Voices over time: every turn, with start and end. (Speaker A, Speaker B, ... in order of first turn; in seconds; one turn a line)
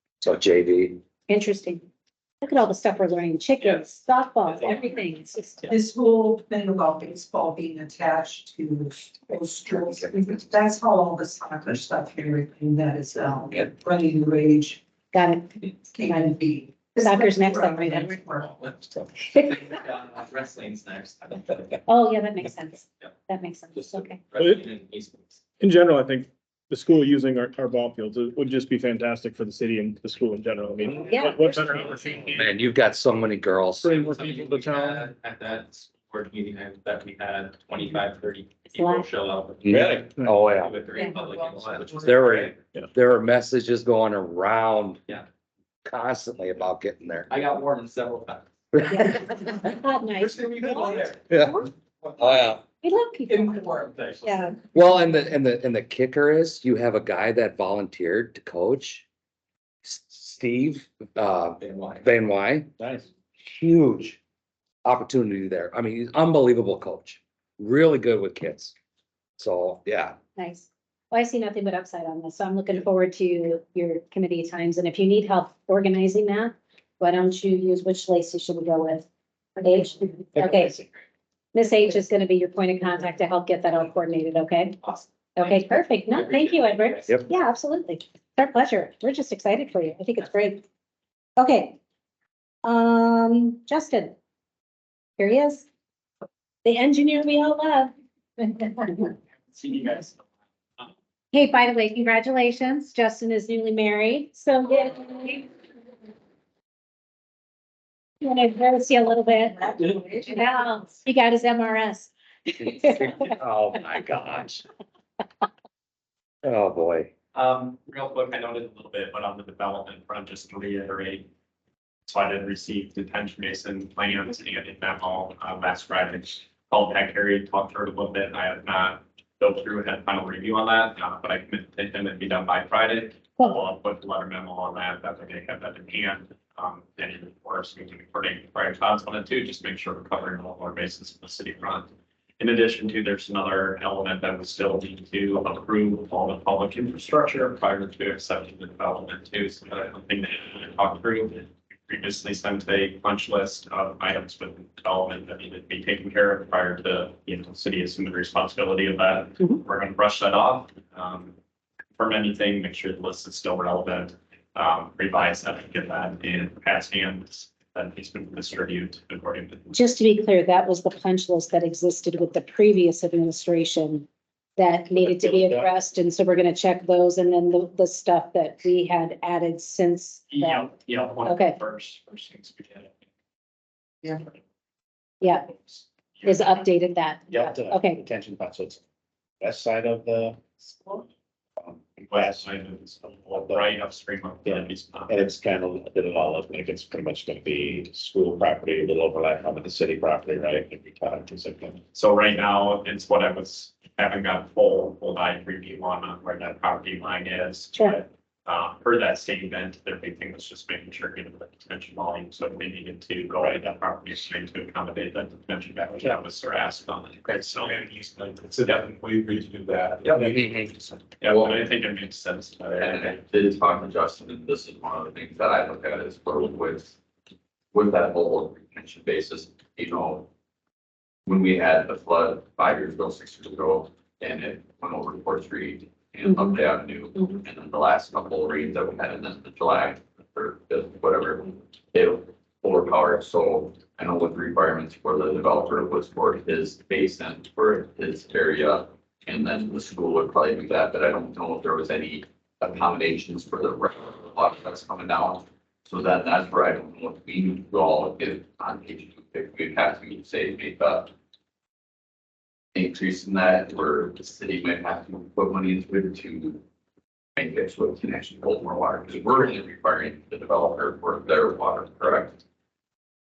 Speaker A: 0.2-1.0
Speaker B: 1.3-1.8
Speaker B: 2.4-5.7
Speaker C: 5.7-14.8
Speaker B: 15.1-16.4
Speaker C: 15.6-19.0
Speaker B: 17.0-18.1
Speaker B: 19.3-19.7
Speaker D: 20.1-21.5
Speaker B: 21.9-24.2
Speaker D: 23.7-25.2
Speaker E: 24.4-24.6
Speaker F: 24.5-25.0
Speaker E: 25.6-32.5
Speaker B: 31.0-31.5
Speaker A: 32.3-34.0
Speaker E: 33.8-35.0
Speaker D: 34.1-39.7
Speaker B: 38.7-39.0
Speaker A: 39.6-40.8
Speaker E: 39.7-40.4
Speaker D: 40.6-41.9
Speaker C: 41.1-42.2
Speaker A: 41.8-45.0
Speaker F: 42.2-42.5
Speaker A: 45.8-47.3
Speaker D: 47.3-48.4
Speaker B: 48.8-51.6
Speaker C: 50.6-51.0
Speaker A: 51.3-51.6
Speaker A: 52.2-52.6
Speaker B: 52.8-53.6
Speaker B: 54.2-54.5
Speaker A: 54.7-59.0
Speaker A: 59.8-62.7
Speaker G: 62.8-63.1
Speaker A: 63.4-64.2
Speaker A: 64.8-68.7
Speaker A: 69.4-70.2
Speaker B: 70.3-79.1
Speaker B: 79.6-80.8
Speaker B: 81.5-84.8
Speaker B: 85.3-90.6
Speaker D: 86.3-87.1
Speaker B: 91.4-91.8
Speaker B: 92.6-94.2
Speaker B: 95.2-95.7
Speaker B: 96.6-99.1
Speaker B: 101.3-105.5
Speaker B: 108.2-113.1
Speaker C: 109.8-110.2
Speaker A: 112.6-114.6
Speaker A: 116.4-117.1
Speaker H: 117.3-121.3
Speaker H: 122.1-161.3
Speaker H: 162.0-169.7
Speaker B: 169.7-174.1
Speaker B: 174.6-180.7
Speaker G: 175.0-175.6
Speaker H: 180.3-182.9
Speaker B: 181.2-181.6
Speaker B: 185.2-185.5
Speaker B: 186.2-188.0
Speaker G: 187.3-188.8
Speaker G: 189.4-190.4
Speaker G: 191.6-193.8
Speaker H: 192.1-195.1
Speaker G: 194.4-201.8
Speaker H: 201.9-218.9
Speaker G: 213.4-213.7
Speaker G: 217.2-221.6
Speaker H: 221.2-223.2
Speaker F: 222.8-226.9
Speaker F: 227.7-230.3
Speaker F: 231.2-261.1
Speaker B: 236.2-236.5
Speaker F: 262.7-266.6
Speaker F: 267.4-272.4